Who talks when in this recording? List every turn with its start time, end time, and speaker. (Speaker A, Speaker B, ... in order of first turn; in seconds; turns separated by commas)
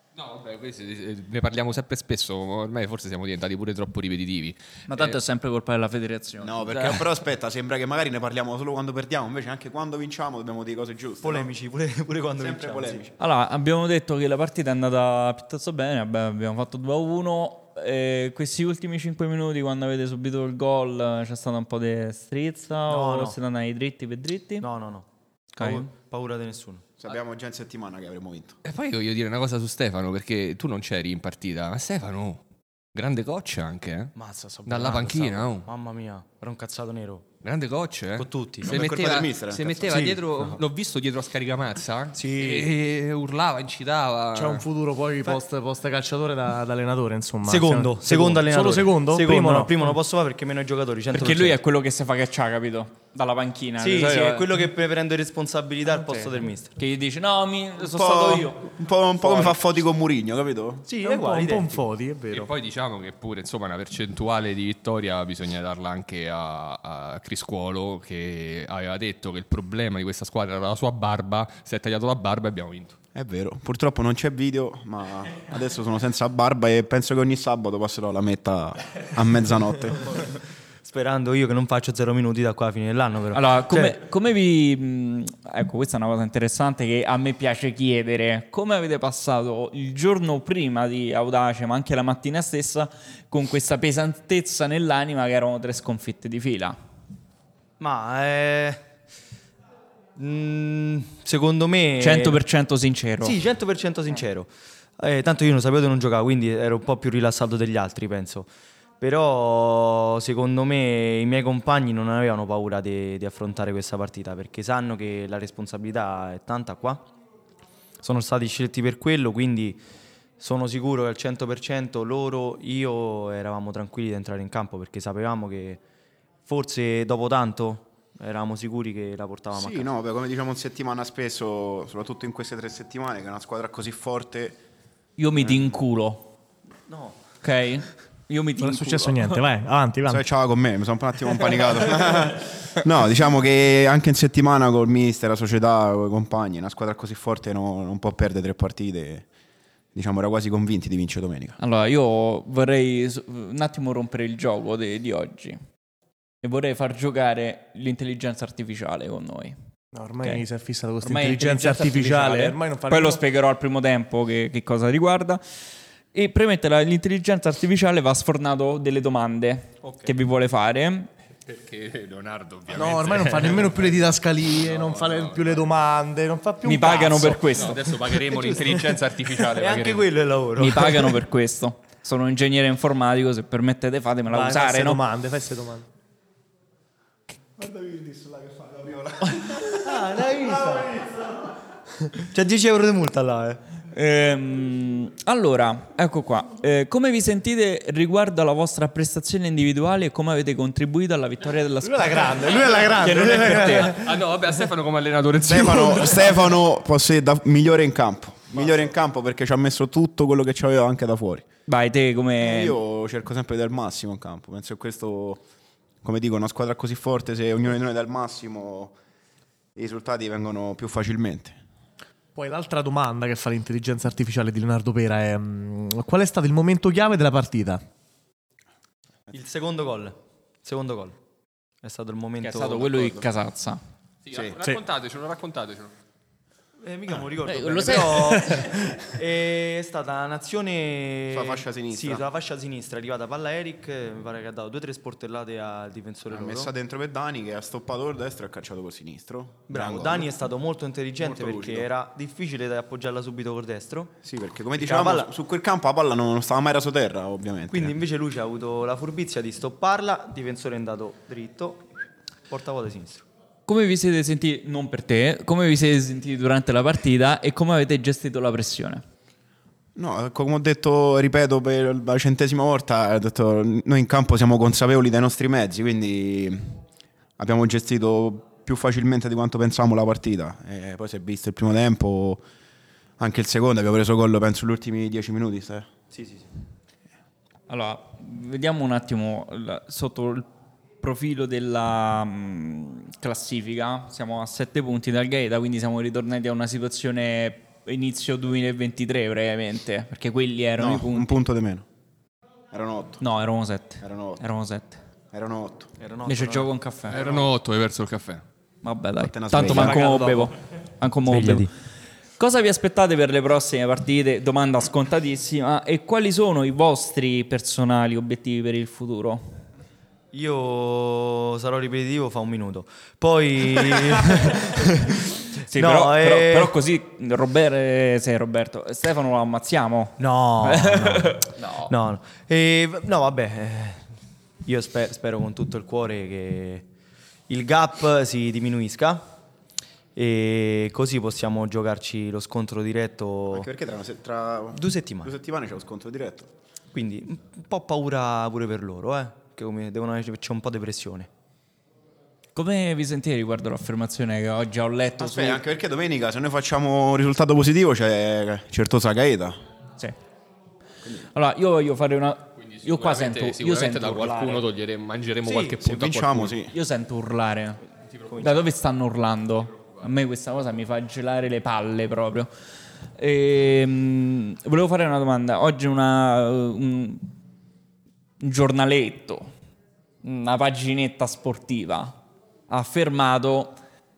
Speaker A: 0.2-5.2, Speaker B: 4.9-7.1, Speaker C: 6.4-11.5, Speaker D: 11.2-13.2, Speaker C: 12.4-13.1, Speaker B: 13.2-24.7, Speaker D: 22.9-23.4, Speaker D: 24.6-26.9, Speaker B: 25.6-25.9, Speaker C: 27.0-28.6, Speaker A: 28.6-32.4, Speaker A: 32.9-34.1, Speaker D: 34.1-37.3, Speaker A: 34.7-35.7, Speaker A: 37.4-44.6, Speaker D: 38.2-38.8, Speaker C: 38.6-40.0, Speaker D: 39.9-40.6, Speaker D: 42.1-42.7, Speaker E: 44.4-49.9, Speaker D: 47.5-51.6, Speaker B: 51.1-54.6, Speaker D: 53.8-56.8, Speaker B: 56.0-58.7, Speaker C: 57.8-60.9, Speaker D: 60.9-61.8, Speaker E: 61.0-62.5, Speaker A: 62.3-73.0, Speaker C: 73.2-80.0, Speaker D: 80.8-84.0, Speaker B: 83.3-96.8, Speaker D: 97.8-98.9, Speaker D: 100.2-102.4, Speaker B: 102.0-103.4, Speaker D: 103.2-117.1, Speaker D: 118.0-119.8, Speaker D: 120.4-125.8, Speaker D: 126.5-129.9, Speaker C: 129.5-134.6, Speaker B: 135.2-136.3, Speaker D: 135.4-135.7, Speaker D: 136.9-137.2, Speaker B: 137.4-139.4, Speaker E: 138.6-140.2, Speaker C: 140.1-149.2, Speaker C: 149.9-151.6, Speaker B: 151.6-155.6, Speaker B: 156.4-159.6, Speaker E: 159.9-163.2, Speaker B: 161.0-165.4, Speaker B: 166.1-171.1, Speaker A: 171.5-175.7, Speaker E: 172.7-177.6, Speaker B: 176.6-177.8, Speaker A: 177.5-180.1, Speaker D: 178.3-181.2, Speaker B: 180.6-185.0, Speaker E: 184.3-185.9, Speaker C: 187.6-189.9, Speaker D: 189.6-191.2, Speaker D: 192.2-193.6, Speaker B: 193.9-204.0, Speaker E: 201.8-204.1, Speaker A: 203.8-206.6, Speaker C: 205.4-211.5, Speaker B: 211.7-212.8, Speaker C: 212.4-215.4, Speaker C: 216.0-218.9, Speaker C: 219.8-221.6, Speaker E: 222.3-227.8, Speaker D: 229.3-231.2, Speaker D: 231.8-233.2, Speaker B: 232.4-233.8, Speaker A: 234.2-235.9, Speaker C: 234.3-234.6, Speaker D: 236.8-246.7, Speaker B: 237.4-238.6, Speaker C: 241.3-242.2, Speaker C: 246.3-250.3, Speaker D: 249.7-254.2, Speaker C: 251.2-251.9, Speaker C: 254.2-258.0, Speaker D: 254.8-255.3, Speaker D: 257.7-261.9, Speaker D: 262.5-263.2, Speaker B: 263.7-269.0, Speaker C: 270.0-276.8, Speaker C: 277.4-282.4, Speaker C: 283.2-285.9, Speaker D: 286.1-286.5, Speaker B: 287.7-290.5, Speaker B: 291.0-301.4, Speaker C: 300.8-301.9, Speaker C: 302.7-303.2, Speaker B: 303.2-305.0, Speaker C: 304.0-304.4, Speaker C: 305.3-305.9, Speaker D: 306.0-307.5, Speaker B: 306.2-307.2, Speaker A: 307.1-308.4, Speaker B: 308.8-311.7, Speaker C: 309.2-310.1, Speaker E: 309.7-310.5, Speaker D: 311.3-311.7, Speaker B: 312.4-319.6, Speaker D: 320.3-326.8, Speaker B: 325.7-331.9, Speaker D: 330.2-334.1, Speaker D: 334.6-336.9, Speaker D: 337.5-339.3, Speaker D: 340.1-343.7, Speaker C: 343.5-346.5, Speaker D: 344.7-345.4, Speaker D: 346.9-351.3, Speaker B: 352.6-355.6, Speaker C: 355.2-359.6, Speaker B: 361.3-364.7, Speaker A: 362.6-366.6, Speaker C: 365.6-366.7, Speaker B: 366.7-367.8, Speaker B: 368.4-372.5, Speaker B: 373.2-377.3, Speaker B: 378.4-379.5, Speaker B: 380.2-382.2, Speaker B: 382.7-383.8